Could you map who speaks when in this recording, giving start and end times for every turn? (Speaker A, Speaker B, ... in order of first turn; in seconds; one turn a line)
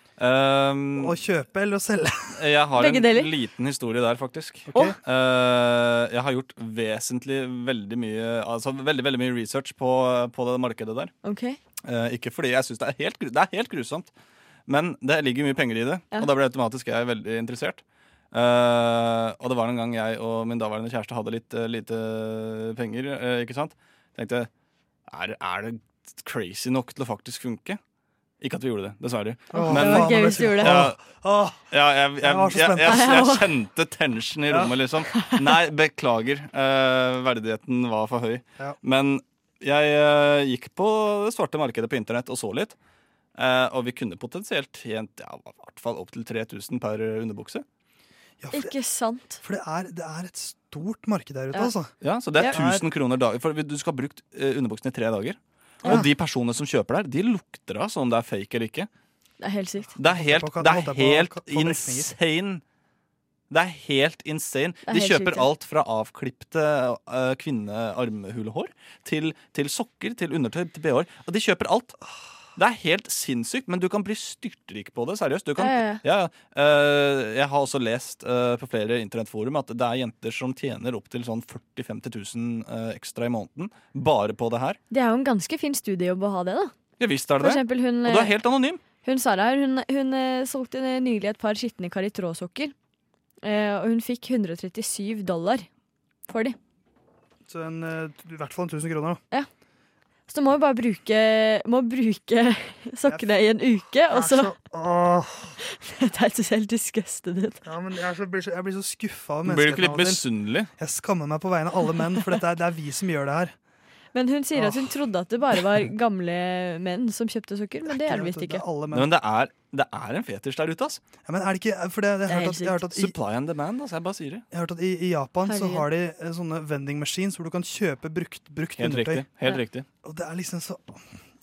Speaker A: 0.2-1.1
Speaker B: 1.0-2.3
Speaker A: 2.4-11.1
Speaker C: 2.8-3.3
Speaker B: 4.7-5.0
Speaker C: 11.2-11.6
Speaker A: 11.9-14.1
Speaker A: 14.7-24.5
Speaker A: 25.1-27.8
Speaker A: 28.4-31.0
Speaker C: 29.5-30.9
Speaker B: 29.5-33.1
Speaker A: 31.7-42.8
Speaker C: 32.9-33.5
Speaker B: 34.5-34.8
Speaker C: 35.1-35.6
Speaker A: 43.4-47.6
Speaker B: 48.4-48.7
Speaker C: 48.5-49.4
Speaker B: 49.4-52.9
Speaker A: 52.0-58.9
Speaker C: 59.4-60.0
Speaker A: 60.0-62.6
Speaker B: 60.0-62.1
Speaker A: 63.5-72.0
Speaker C: 64.9-65.5
Speaker A: 72.6-84.8
Speaker C: 75.6-76.0
Speaker C: 84.9-86.8
Speaker A: 87.0-88.8
Speaker C: 87.4-88.4
Speaker C: 88.9-92.7
Speaker C: 93.4-95.7
Speaker C: 96.3-96.6
Speaker B: 97.5-99.2
Speaker C: 100.3-104.5
Speaker B: 104.1-105.6
Speaker C: 105.6-107.6
Speaker B: 107.6-110.2
Speaker A: 109.5-110.7
Speaker B: 110.8-113.5
Speaker C: 114.1-118.6
Speaker B: 114.5-115.0
Speaker B: 117.9-119.1
Speaker A: 118.9-121.0
Speaker B: 121.2-123.2
Speaker C: 122.3-122.8
Speaker A: 122.9-124.4
Speaker B: 124.5-129.3
Speaker C: 125.5-125.9
Speaker A: 128.8-129.8
Speaker B: 130.0-131.0